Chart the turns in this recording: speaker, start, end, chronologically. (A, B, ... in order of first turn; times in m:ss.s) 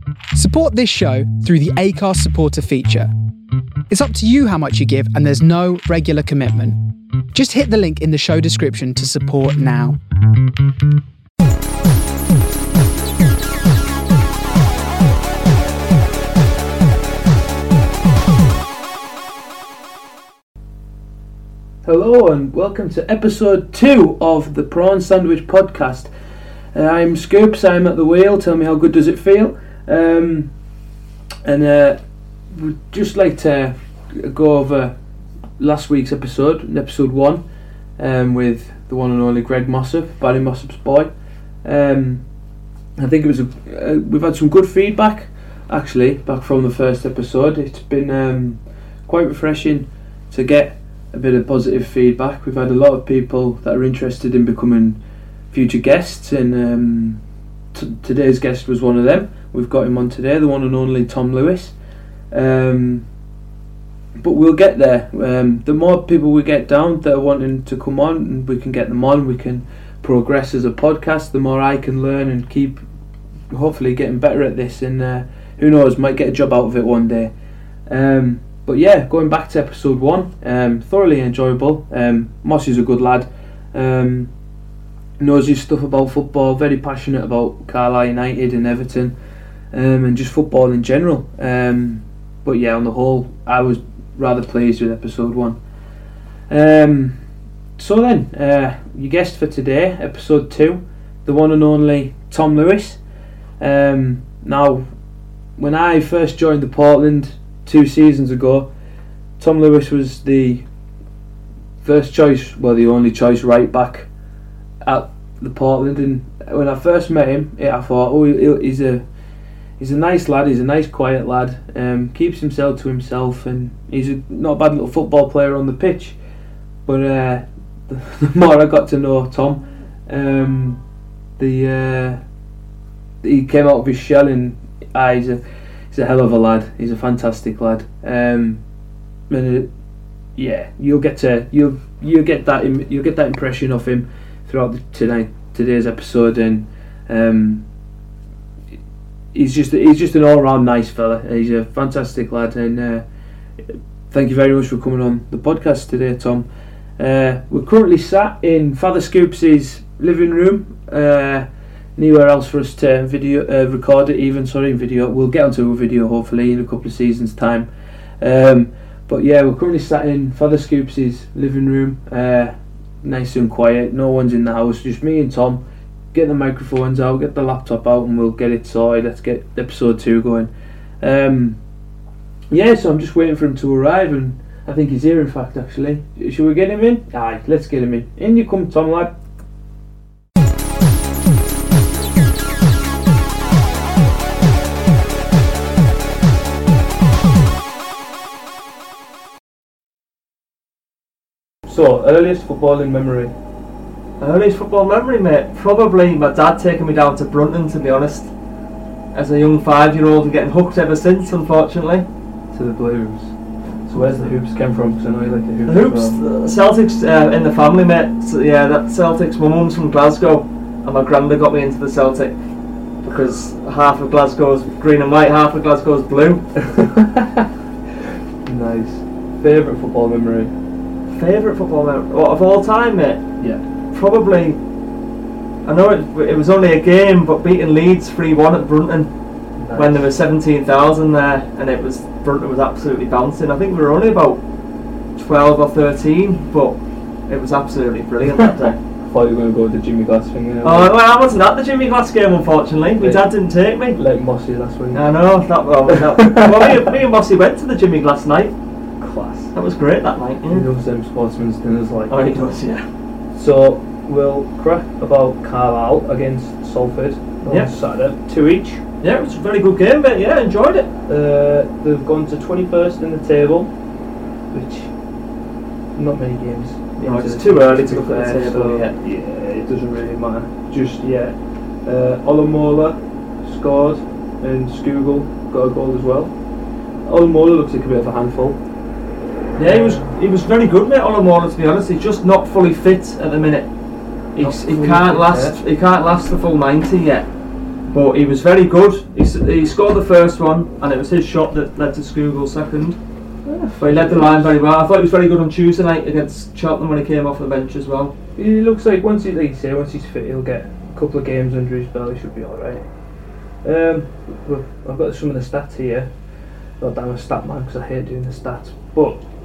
0:00.3-0:03.1 A
0:03.9-0:06.8 A
0:07.3-0:10.0 A
0:21.8-0:26.1 B
0:26.7-0:30.5 B
0:31.4-0:32.0 B
0:32.5-0:34.9 B
0:35.6-0:37.4 B
0:38.0-0:41.1 B
0:41.6-0:42.2 B
0:43.0-0:55.0 B
0:55.5-0:57.2 B
0:57.7-1:01.7 B
1:02.3-1:03.0 B
1:04.2-1:12.8 B
1:13.5-1:17.3 B
1:17.9-1:24.3 B
1:25.2-1:29.1 B
1:29.7-1:35.6 B
1:36.5-1:37.2 B
1:37.8-1:43.0 B
1:43.6-1:44.9 B
1:45.6-1:48.7 B
1:49.4-1:50.6 B
1:51.8-1:54.1 B
1:54.8-1:59.0 B
1:59.8-2:06.2 B
2:06.8-2:10.8 B
2:11.4-2:12.2 B
2:13.2-2:18.6 B
2:19.3-2:19.7 B
2:20.4-2:27.6 B
2:29.3-2:33.0 B
2:34.1-2:36.5 B
2:37.0-2:47.7 B
2:48.2-2:55.6 B
2:56.1-3:00.5 B
3:01.0-3:01.6 B
3:02.5-3:09.1 B
3:21.7-3:23.3 B
3:24.2-3:28.3 C
3:29.1-3:32.0 C
3:32.5-3:33.3 B
3:33.9-3:36.2 B
3:33.9-3:34.3 C
3:35.6-3:42.3 C
3:43.0-3:46.4 C
3:46.6-3:47.5 B
3:48.4-3:50.5 B
3:51.1-3:53.2 C
3:53.9-3:54.6 C
3:55.6-3:59.1 C
3:59.6-4:00.1 B
3:59.7-4:04.4 C
4:05.2-4:08.8 C
4:09.0-4:10.9 B
4:10.6-4:14.0 C
4:13.0-4:13.3 B
4:14.0-4:15.1 B
4:14.9-4:18.5 C
4:15.9-4:16.8 B
4:19.0-4:19.5 B
4:19.5-4:20.7 C
4:20.5-4:22.4 B
4:22.1-4:22.8 C
4:23.3-4:28.8 B
4:29.0-4:30.9 C
4:31.1-4:33.7 B
4:34.5-4:34.9 B
4:35.9-4:46.3 B
4:37.0-4:38.9 C
4:47.0-4:48.6 B
4:49.6-4:53.7 C
4:49.6-4:50.2 B
4:54.3-4:57.3 C
4:54.4-4:55.6 B
4:57.9-5:03.0 C
5:03.4-5:04.6 B
5:03.8-5:08.1 C
5:08.4-5:12.8 B
5:13.6-5:16.1 B
5:16.8-5:19.2 B